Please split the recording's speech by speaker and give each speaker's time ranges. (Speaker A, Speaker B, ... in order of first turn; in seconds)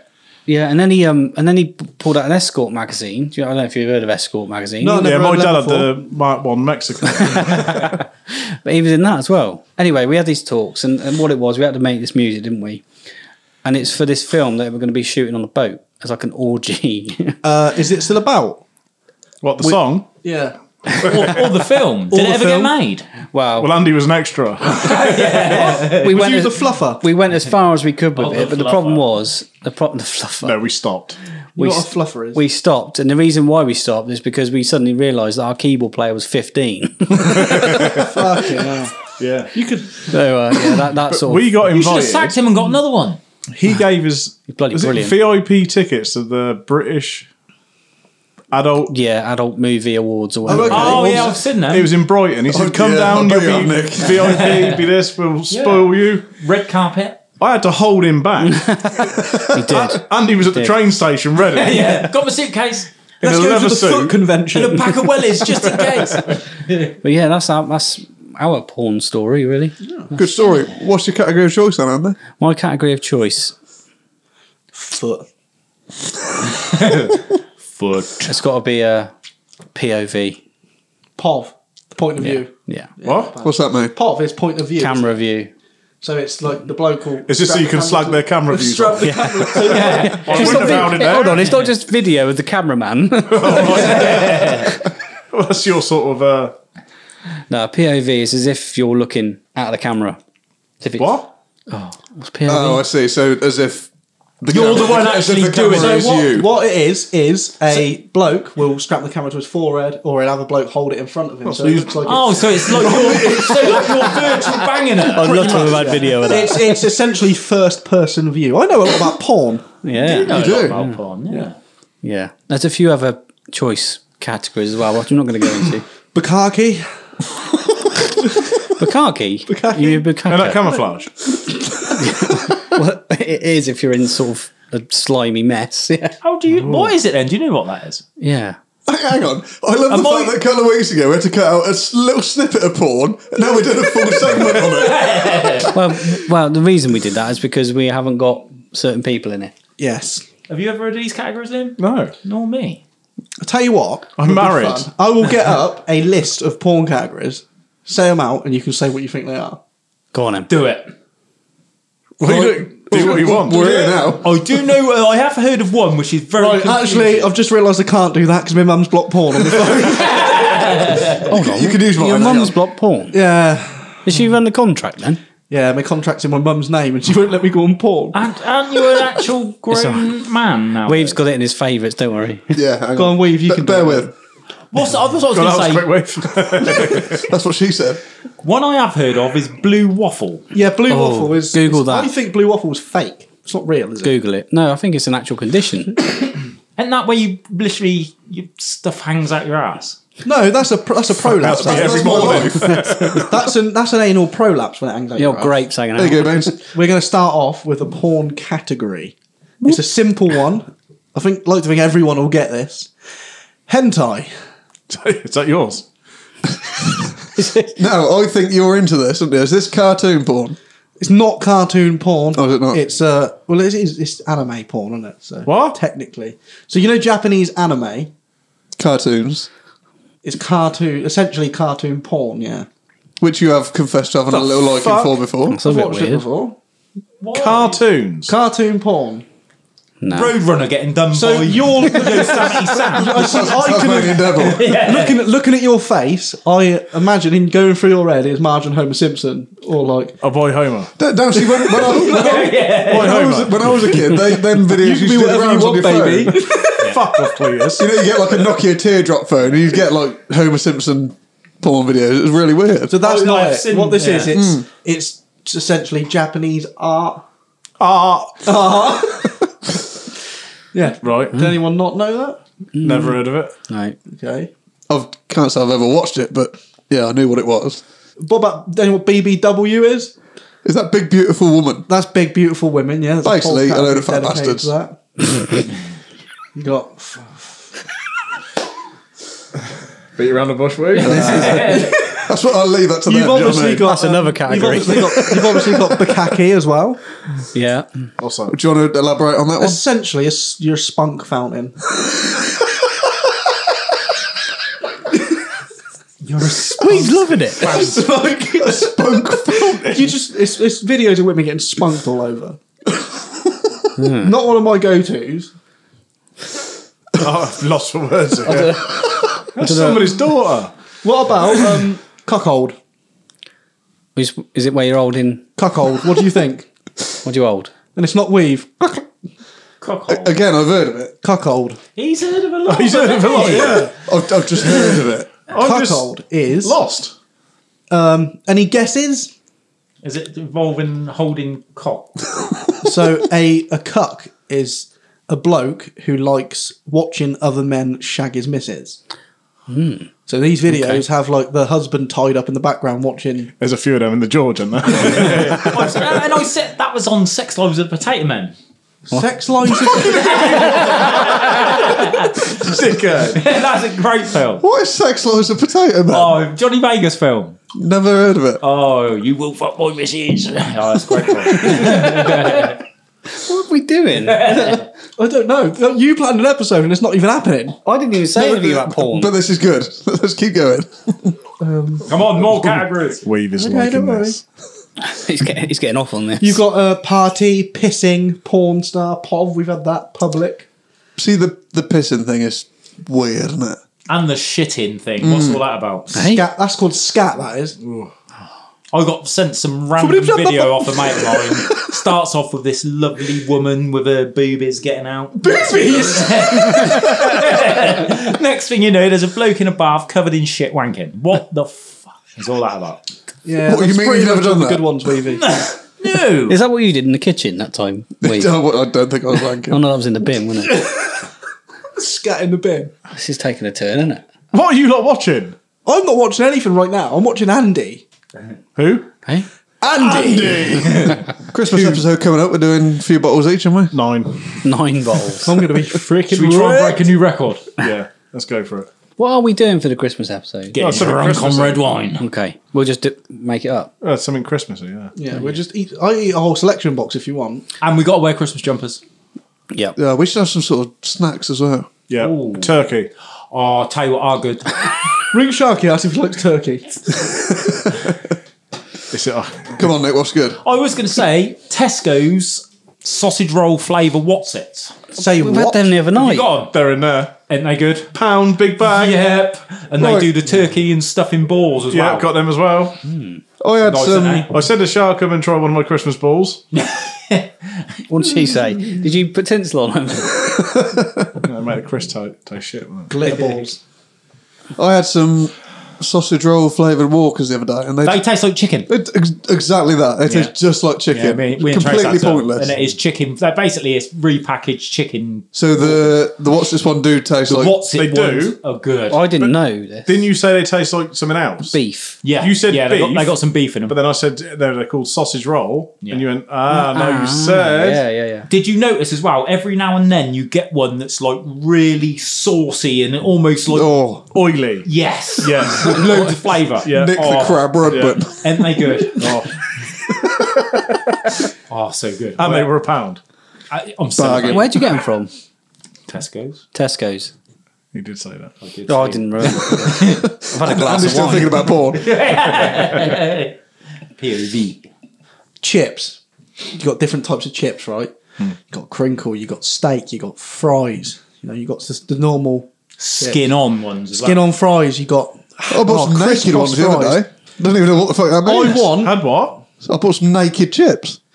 Speaker A: 0.5-5.1, 7.2-12.8, 13.6-17.4, 23.3-23.7, 25.9-30.5, 31.6-38.1, 40.1-41.6, 44.5-45.2, 48.9-51.3, 58.5-60.8, 67.0-69.8, 72.4-73.5, 78.2-79.1, 79.8-80.4, 82.2-82.9, 84.8-85.5, 89.0-94.7, 97.5-100.2, 100.8-102.9, 115.0-116.8, 119.8-121.0, 122.0-125.8, 128.8-130.7, 132.0-136.1, 138.2-138.6, 145.7-149.5, 160.1-160.5, 171.3-173.2, 174.0-175.2, 179.7-180.1, 180.8-182.6, 190.9-192.1, 194.0-196.0, 205.2-206.6, 217.4-217.8, 235.5-236.2, 240.0-240.3, 272.8-274.0, 293.8-295.3, 297.5-298.0, 306.8-307.7, 314.0-314.3, 318.5-318.9, 319.6-320.0, 324.2-325.5, 327.2-327.7, 349.7-350.1, 350.7-351.0, 373.3-374.8, 377.8-379.3, 385.0-386.6, 396.1-396.4, 416.5-418.6, 419.7-420.9, 423.1-424.2, 434.6-435.5, 439.2-441.0, 442.2-443.9, 465.3-466.5, 473.1-473.4, 478.1-480.7, 499.1-500.3, 501.7-502.2, 506.7-508.5, 524.5-525.3, 526.7-527.3, 528.9-531.7
Speaker B: 4.8-6.0, 17.4-18.6, 20.2-21.4, 22.1-22.7, 25.8-27.0, 31.6-32.4, 37.8-40.1, 50.5-51.1, 63.2-65.5, 74.7-75.2, 81.2-85.0, 86.0-91.0, 105.7-119.6, 126.1-126.9, 128.2-128.6, 129.5-130.1, 149.8-150.2, 153.4-159.6, 166.4-171.0, 173.1-174.0, 175.5-178.2, 182.9-184.1, 190.5-194.1, 200.2-205.5, 206.7-212.9, 213.7-214.3, 221.0-228.1, 230.2-232.7, 235.5-236.6, 238.3-239.2, 241.1-250.2, 254.3-257.6, 262.9-267.2, 268.4-269.5, 270.7-272.4, 274.1-274.5, 278.2-280.1, 281.9-285.6, 286.5-287.5, 291.1-292.2, 293.1-297.0, 299.6-301.8, 307.6-312.6, 314.1-315.5, 321.0-322.8, 325.6-326.7, 327.9-329.0, 331.2-331.8, 335.5-336.8, 337.9-339.3, 342.8-349.0, 350.3-353.5, 359.1-361.1, 374.5-377.8, 381.6-382.1, 383.6-384.4, 386.4-390.6, 396.2-397.8, 400.0-401.6, 405.4-407.2, 413.4-415.5, 420.7-421.2, 421.9-422.9, 425.8-428.0, 429.8-431.1, 435.4-437.1, 445.1-447.6, 455.3-457.0, 465.1-465.9, 483.1-483.8, 535.6-536.2, 536.8-543.4, 544.1-547.2, 548.4-549.2
Speaker C: 5.0-7.9, 19.4-20.1, 23.6-25.8, 30.4-31.2, 37.1-38.1, 39.2-39.5, 41.1-42.4, 43.5-47.3, 48.5-48.9, 51.6-56.2, 57.4-58.9, 59.7-62.1, 63.2-64.2, 83.0-83.3, 87.3-91.5, 93.3-94.7, 95.3-96.5, 101.0-101.3, 111.5-112.1, 130.2-131.1, 136.6-136.9, 151.8-152.1, 154.2-154.9, 162.2-164.0, 185.3-187.3, 201.3-203.3, 214.9-215.9, 225.5-225.8, 234.7-235.2, 237.3-238.3, 250.2-250.9, 252.8-254.0, 256.8-257.9, 267.8-268.5, 271.0-271.4, 272.8-273.5, 290.2-291.6, 298.2-298.6, 317.2-318.9, 319.5-320.7, 332.7-333.9, 335.5-337.1, 353.6-356.1, 362.6-363.4, 383.2-384.4, 397.8-398.1, 424.5-425.6, 428.8-429.1, 430.2-431.2, 433.9-434.4, 437.8-438.9, 440.8-441.9, 444.0-445.1, 452.1-453.1, 459.1-459.8, 466.7-467.4, 468.1-469.2, 471.9-473.0, 474.5-476.6, 481.4-483.1, 497.9-498.6, 500.0-501.8, 502.4-508.0, 514.3-514.9, 515.4-516.3, 516.8-518.2, 519.1-519.5, 522.4-523.2, 527.9-528.5, 532.6-533.2, 548.9-549.6
Speaker D: 21.0-23.1, 24.8-26.1, 28.1-29.1, 41.6-43.2, 50.7-51.9, 54.2-54.8, 55.5-57.2, 61.5-62.9, 64.5-66.4, 76.6-77.2, 77.8-78.3, 89.6-90.6, 93.8-94.7, 104.5-106.2, 112.0-116.0, 120.0-121.6, 136.2-138.0, 139.9-140.3, 144.6-145.7, 150.5-152.8, 160.5-160.9, 164.2-167.3, 170.2-171.1, 178.1-181.2, 184.7-185.9, 188.4-190.5, 196.8-200.0, 237.2-237.8, 240.1-243.5, 244.3-245.2, 251.8-253.3, 263.0-264.4, 291.0-292.0, 306.2-308.0, 329.8-330.4, 332.0-333.9, 340.0-342.2, 355.5-358.5, 360.0-362.5, 363.3-364.6, 366.1-367.6, 368.6-372.8, 374.2-374.8, 382.1-383.2, 394.1-396.1, 398.9-405.4, 405.9-413.0, 415.3-416.6, 436.3-437.7, 440.7-442.2, 447.8-449.0, 452.2-452.7, 453.5-454.9, 460.6-464.9, 466.1-466.7, 467.5-468.1, 468.8-472.3, 473.9-474.5, 476.7-477.5, 483.2-483.6, 488.0-488.9, 490.2-490.5, 491.1-495.5, 497.5-499.2, 502.2-504.0, 508.5-513.9, 514.9-517.7, 518.4-519.4, 521.7-522.7, 523.7-524.8, 526.1-526.6, 528.6-530.2, 531.9-533.5, 534.2-534.9, 543.0-544.5
Speaker E: 50.5-51.3, 52.5-54.4, 70.1-72.2, 83.4-83.9, 102.5-103.9, 104.4-106.5, 120.3-120.8, 138.9-145.6, 162.2-164.4, 171.3-172.6, 182.5-184.1, 187.0-188.0, 201.4-203.1, 205.9-206.6, 217.8-220.6, 222.3-222.8, 228.8-229.5, 233.2-235.6, 243.0-244.7, 251.0-256.4, 257.8-263.0, 264.3-264.6, 274.9-277.8, 280.6-281.9, 283.2-284.7, 291.0-294.0, 294.9-296.0, 298.5-299.8, 308.5-310.1, 330.1-331.1, 333.9-335.3, 364.6-366.4, 367.7-368.6, 378.4-381.3, 391.2-393.8, 395.2-395.6, 413.6-414.9, 418.2-419.8, 431.5-433.9, 450.0-451.9, 457.3-458.1, 459.8-460.6, 470.0-470.3, 473.6-474.5, 480.5-481.3, 484.8-488.2, 488.9-492.8, 495.5-497.8, 513.7-514.2, 516.8-518.7, 524.2-524.7, 530.0-532.2, 545.7-549.0, 549.8-551.2